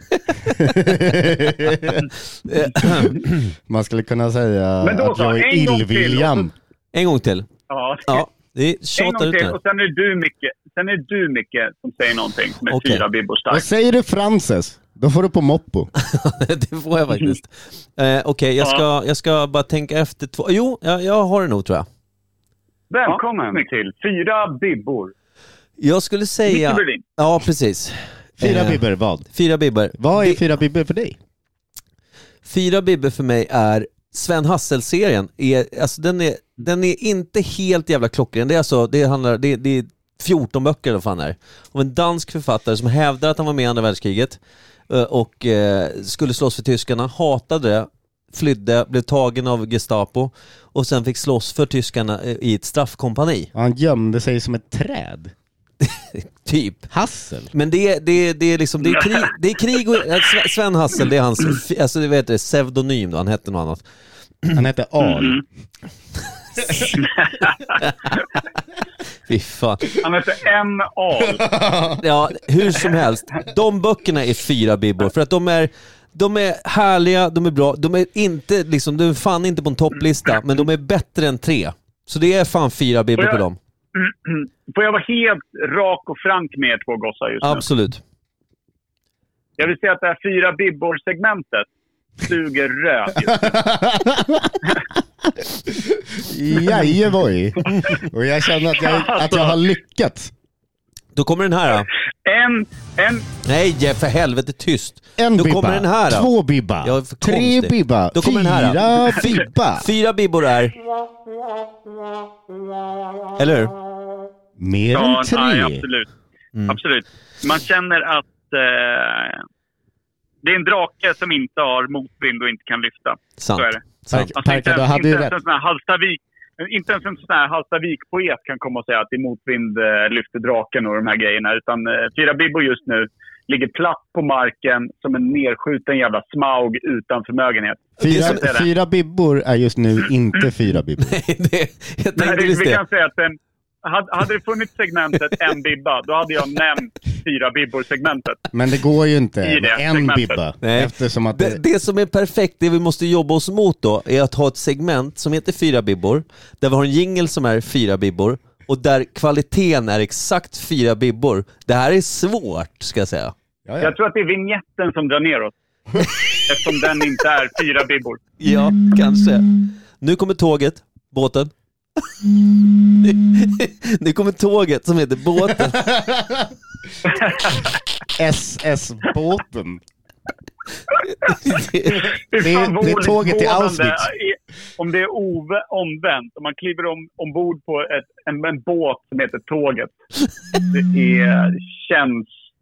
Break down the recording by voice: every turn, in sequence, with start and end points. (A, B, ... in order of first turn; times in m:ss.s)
0:00.3-0:00.9 A
0:00.6-0:02.0 B
0:01.7-0:03.5 A
0:03.7-0:06.5 B
0:04.8-0:06.5 C
0:06.9-0:07.5 A
0:07.7-0:08.2 C
0:08.0-0:09.6 A
0:09.0-0:13.6 C
0:12.7-0:13.0 A
0:13.5-0:15.9 B
0:16.0-0:21.9 A
0:22.9-0:25.1 C
0:25.8-0:28.8 A
0:26.5-0:27.0 C
0:28.4-0:29.3 B
0:29.3-0:30.4 A
0:29.9-0:31.2 B
0:32.4-0:53.5 A
0:53.5-0:55.3 B
0:55.8-0:56.9 A
0:56.9-0:57.5 B
0:57.5-1:03.8 A
1:04.5-1:05.4 B
1:05.0-1:05.4 C
1:06.9-1:07.6 C
1:07.8-1:08.2 A
1:09.3-1:09.9 A
1:10.0-1:11.4 C
1:11.2-1:12.0 B
1:12.0-1:23.6 A
1:23.2-1:23.4 C
1:23.9-1:27.6 C
1:27.4-1:28.0 A
1:29.6-1:31.7 C
1:32.2-1:33.5 C
1:33.3-1:34.6 B
1:35.7-1:40.3 B
1:38.8-1:39.6 C
1:41.1-1:41.9 A
1:42.2-1:43.3 C
1:43.4-1:46.3 A
1:45.2-1:49.9 B
1:46.8-1:50.7 A
1:53.4-1:53.7 A
1:54.6-1:55.8 B
1:54.9-1:56.1 C
1:56.7-1:59.4 C
2:00.4-2:03.8 C
2:03.4-2:04.3 A
2:04.1-2:05.4 B
2:04.4-2:18.7 C
2:18.0-2:18.4 A
2:18.0-2:21.2 B
2:21.0-2:22.8 A
2:22.2-2:28.4 C
2:28.5-2:31.6 B
2:29.4-2:30.4 C
2:30.6-2:43.3 A
2:43.6-2:43.9 B
2:43.8-2:45.5 C
2:46.4-2:48.2 C
2:48.4-2:49.5 A
2:50.0-2:51.5 A
2:53.0-2:55.9 A
2:55.7-2:56.5 B
2:57.1-2:57.6 C
2:58.2-2:59.8 B
3:01.2-3:02.1 A
3:02.0-3:09.9 C
3:02.4-3:04.1 B
3:10.7-3:12.3 C